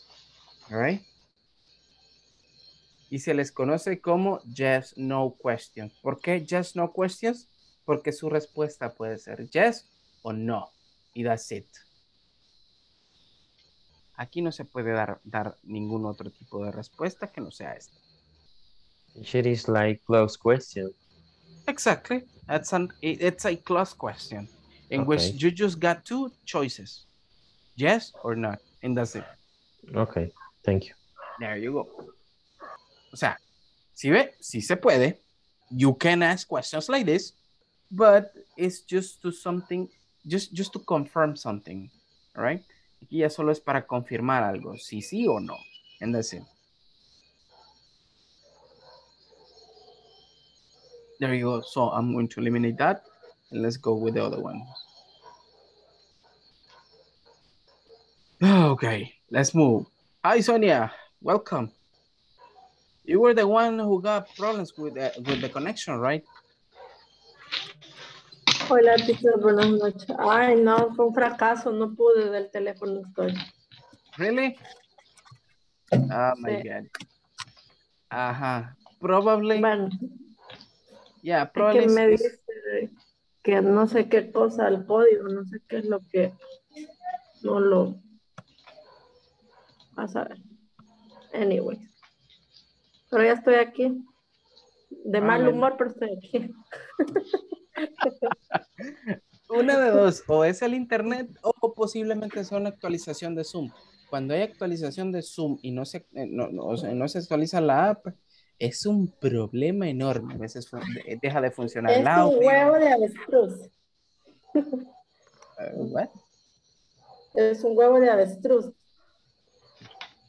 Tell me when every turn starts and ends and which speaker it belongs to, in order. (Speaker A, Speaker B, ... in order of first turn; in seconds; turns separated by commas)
Speaker A: 0.7-1.0, Speaker A: 3.1-11.8, Speaker A: 14.2-17.9, Speaker B: 19.1-20.9, Speaker A: 21.7-27.0, Speaker B: 24.9-25.3, Speaker A: 27.8-29.2, Speaker B: 29.9-30.9, Speaker A: 31.4-31.9, Speaker A: 33.1-33.4, Speaker A: 34.0-35.2, Speaker A: 35.7-37.3, Speaker A: 37.9-46.5, Speaker A: 51.2-54.8, Speaker A: 58.4-61.7, Speaker A: 63.0-66.2, Speaker C: 68.7-73.4, Speaker A: 74.2-74.5, Speaker A: 76.1-76.9, Speaker C: 76.4-76.7, Speaker A: 78.1-79.7, Speaker C: 79.5-79.9, Speaker A: 81.2-82.3, Speaker C: 81.6-82.9, Speaker C: 83.4-86.3, Speaker C: 87.4-88.0, Speaker C: 90.0-90.4, Speaker C: 91.3-91.9, Speaker C: 93.1-94.0, Speaker C: 95.0-96.5, Speaker A: 95.2-95.7, Speaker C: 98.0-98.3, Speaker A: 98.8-112.8, Speaker C: 111.9-113.7, Speaker A: 115.6-116.1, Speaker C: 117.3-118.8